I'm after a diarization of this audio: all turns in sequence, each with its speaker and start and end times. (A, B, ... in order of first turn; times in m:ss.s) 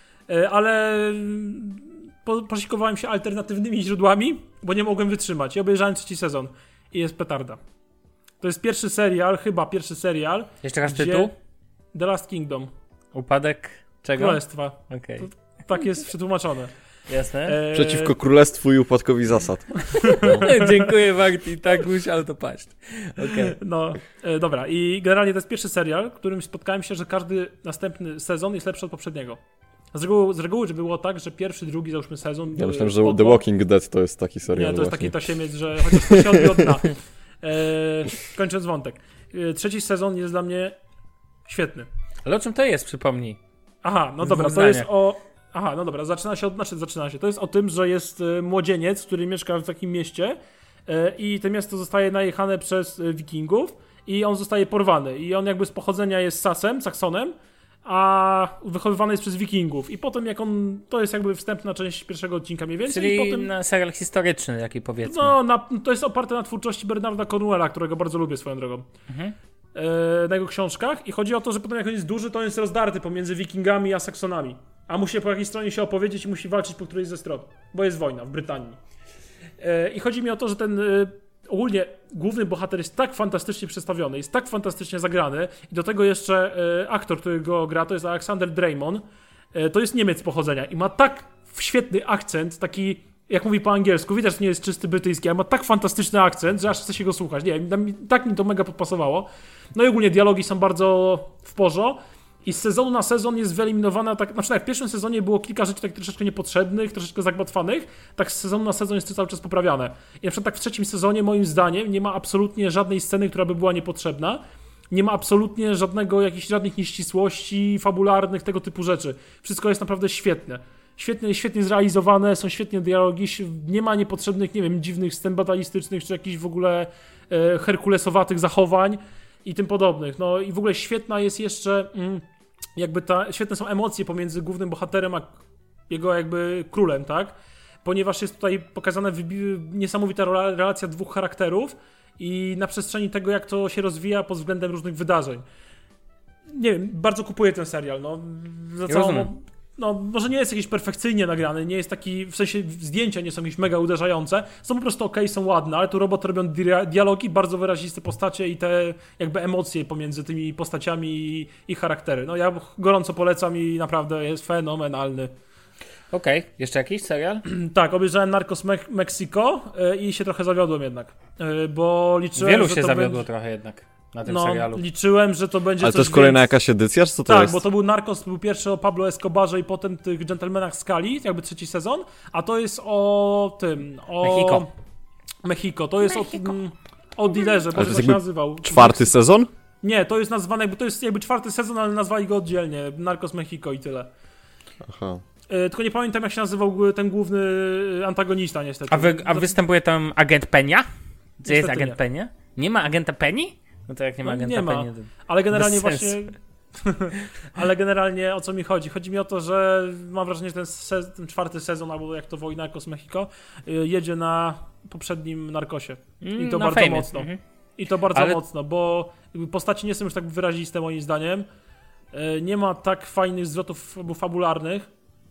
0:00.3-0:07.6 A
0:08.4-0:11.3 A
0:10.6-0:11.3 B
0:11.9-0:12.7 A
0:13.1-0:15.8 B
0:14.2-0:16.7 A
0:17.1-0:17.6 B
0:17.5-0:18.1 A
0:17.7-0:20.5 C
0:20.1-0:20.7 A
0:20.4-0:23.6 B
0:23.3-0:29.4 A
0:29.9-0:33.4 A
0:32.6-0:35.3 C
0:34.5-0:40.8 A
0:35.8-0:36.7 C
0:41.5-0:41.9 A
0:42.2-0:43.4 B
0:43.8-1:03.5 A
0:44.2-0:44.9 B
1:02.9-1:05.4 B
1:05.0-1:08.9 A
1:09.1-1:09.4 B
1:09.8-1:18.8 A
1:19.6-2:12.2 A
2:12.8-2:15.4 A
2:15.9-2:25.4 A
2:26.5-2:45.3 A
2:28.9-2:29.3 B
2:46.1-2:47.4 B
2:47.5-2:53.3 A
2:52.4-2:54.8 B
2:54.3-2:56.5 A
2:55.8-2:57.6 C
2:57.3-3:04.7 A
3:04.2-3:04.7 B
3:05.4-3:09.1 A
3:06.1-3:06.5 B
3:07.7-3:09.5 C
3:09.8-3:14.1 A
3:14.8-3:15.2 C
3:15.5-3:19.6 A
3:18.9-3:20.9 B
3:21.4-3:26.2 B
3:21.5-3:22.0 A
3:24.2-3:41.5 A
3:36.2-3:37.4 B
3:38.1-3:38.4 B
3:42.1-3:44.9 A